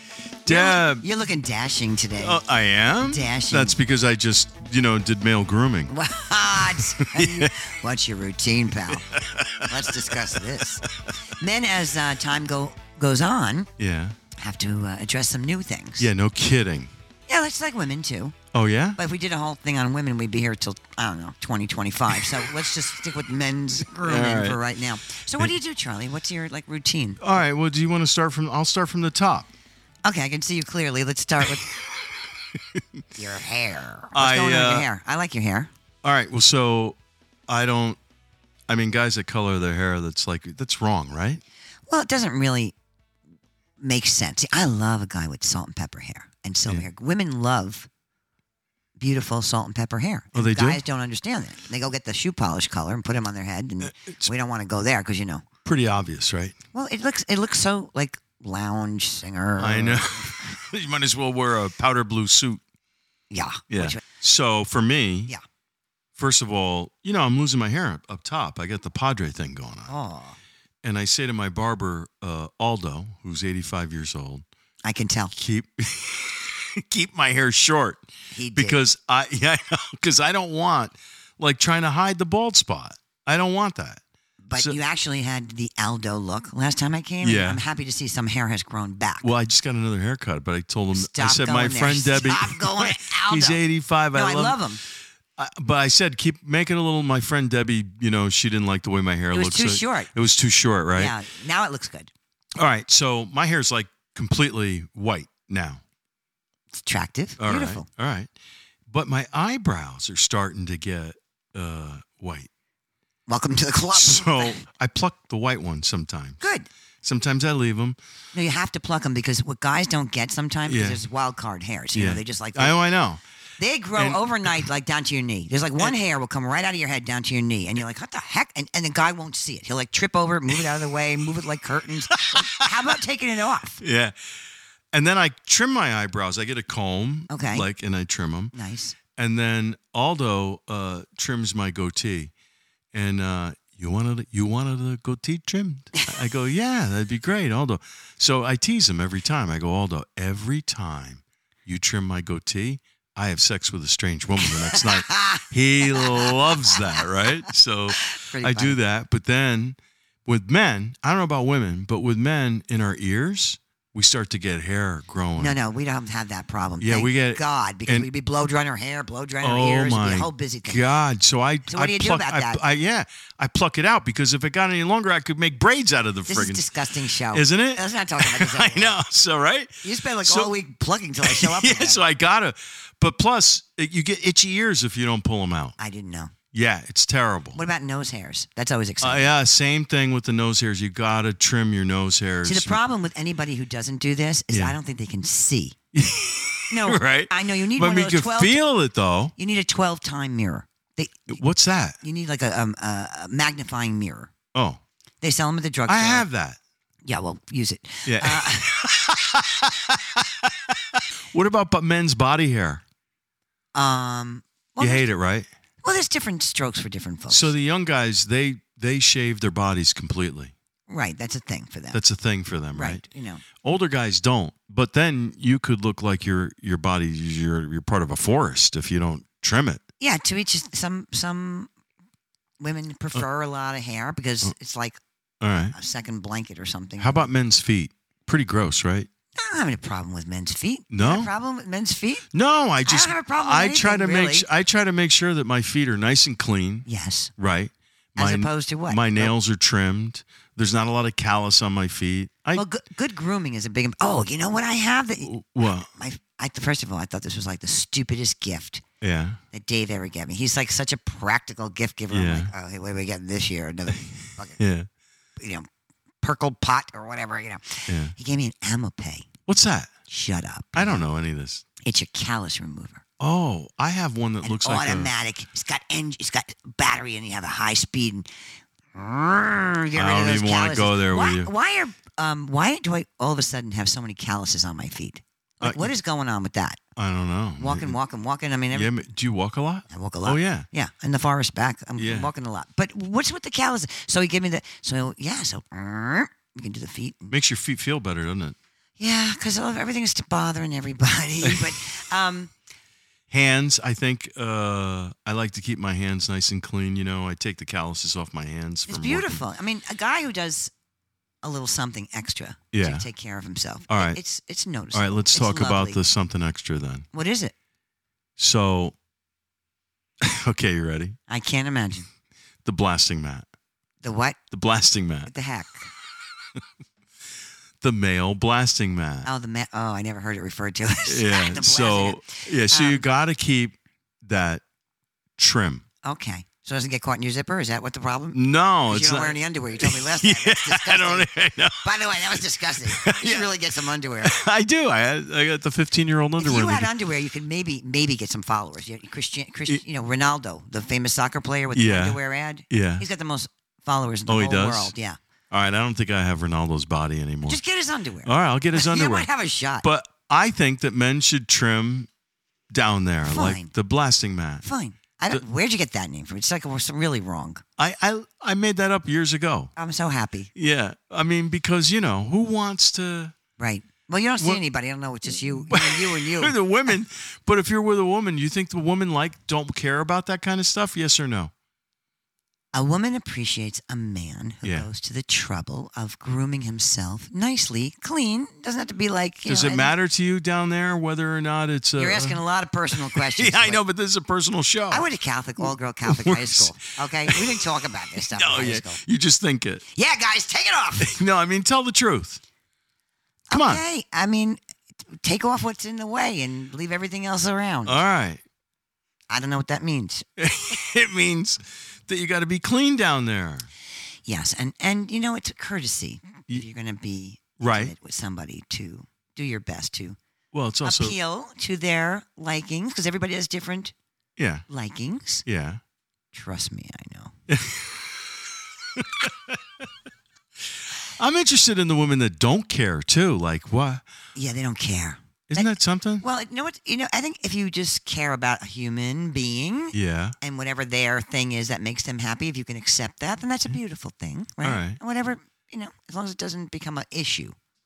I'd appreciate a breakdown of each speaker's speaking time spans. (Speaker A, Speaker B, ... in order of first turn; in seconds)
Speaker A: 0.5-1.1, 2.2-5.9, 6.7-7.5, 9.1-10.2, 13.8-14.1, 16.0-16.9, 18.5-19.0, 23.8-24.6, 27.2-29.5, 34.1-34.9, 36.0-38.0, 38.7-41.4, 50.3-50.8, 53.8-54.3, 55.6-56.6, 59.6-62.6, 63.7-65.3, 66.2-69.9, 70.8-74.5, 75.3-84.0, 87.2-87.6, 89.2-94.6, 95.4-101.2, 102.6-105.8, 107.4-108.3, 108.9-112.5, 113.9-116.4, 117.0-118.0, 120.7-121.0, 121.9-123.2, 124.0-124.7, 132.1-132.7, 133.8-134.2, 134.9-138.5, 139.2-142.3, 142.9-165.6, 166.8-168.1, 169.4-176.7, 177.3-180.6, 181.2-185.8, 186.5-187.6, 189.0-192.8, 195.9-199.3, 201.3-202.0, 204.5-204.8, 205.9-206.6, 208.1-212.8, 214.8-215.5, 217.3-220.5, 221.9-223.0, 223.6-229.8, 235.4-235.7, 237.0-239.1, 240.9-241.3, 242.3-246.9, 247.4-252.6, 255.2-255.9, 259.0-259.4, 262.1-262.5, 264.6-264.9, 267.9-268.1, 269.5-269.9, 270.8-271.6, 273.2-275.1, 279.9-281.5, 285.6-285.9, 287.0-288.0, 288.7-290.7, 292.0-292.3, 297.3-298.6, 301.4-301.7, 303.3-309.4, 312.7-313.1, 313.9-314.2, 314.9-317.1, 318.4-319.0, 320.2-321.2, 322.6-323.5, 324.5-325.3, 327.8-329.3, 331.1-334.6, 335.4-335.8, 338.3-341.8, 342.9-343.5, 344.2-346.9, 351.7-353.1, 354.3-354.9, 355.5-357.6, 358.2-359.3, 359.8-362.1, 362.7-364.6, 367.8-369.7, 370.6-373.4, 375.4-381.5, 384.6-384.9, 389.5-392.4, 393.1-395.1, 396.0-396.7, 397.2-399.8, 401.0-402.4, 403.5-403.8, 407.9-408.4, 410.4-413.7, 417.6-417.9, 420.5-421.2, 424.4-424.6, 425.5-425.8, 427.5-428.1, 429.0-429.5, 431.2-434.0, 435.5-436.2, 439.9-440.4, 444.6-445.0
Speaker B: 0.5-2.4, 3.0-3.8, 5.9-9.1, 9.7-13.7, 14.4-16.1, 17.3-18.4, 19.0-27.3, 30.0-31.8, 33.2-35.7, 41.9-42.8, 43.8-47.9, 49.0-55.5, 56.7-60.5, 63.3-64.0, 69.9-70.4, 74.8-75.3, 78.3-78.8, 84.5-89.3, 90.9-93.6, 94.1-94.8, 99.3-100.1, 101.0-102.1, 106.7-107.9, 113.3-114.6, 116.4-116.7, 118.3-122.8, 123.6-133.8, 137.3-137.7, 138.5-139.0, 154.4-157.0, 158.0-158.8, 165.4-170.9, 171.7-172.6, 176.3-179.0, 179.8-182.0, 185.8-186.3, 187.6-189.3, 192.4-195.8, 196.7-198.6, 199.4-201.4, 202.0-204.3, 205.2-206.2, 207.1-209.1, 213.7-215.1, 215.8-217.5, 220.9-222.0, 222.7-223.4, 230.0-231.7, 232.6-235.0, 235.7-237.3, 239.4-242.3, 242.8-244.5, 246.9-247.3, 248.2-249.3, 252.6-258.8, 259.5-264.6, 265.4-265.7, 266.2-269.3, 270.1-271.1, 271.8-273.0, 274.4-278.3, 278.9-286.8, 287.6-288.9, 289.9-297.3, 299.0-302.5, 308.9-310.7, 311.4-316.0, 317.1-317.5, 321.3-322.1, 324.0-324.4, 325.3-325.9, 329.2-333.1, 336.0-344.4, 346.4-355.2, 357.5-359.9, 363.2-363.7, 364.6-367.6, 369.8-370.5, 373.6-376.9, 382.7-389.9, 392.0-393.8, 394.9-399.0, 399.9-401.1, 403.5-408.0, 409.3-410.3, 414.3-420.2, 420.8-423.9, 424.7-425.4, 426.3-427.3, 434.4-447.6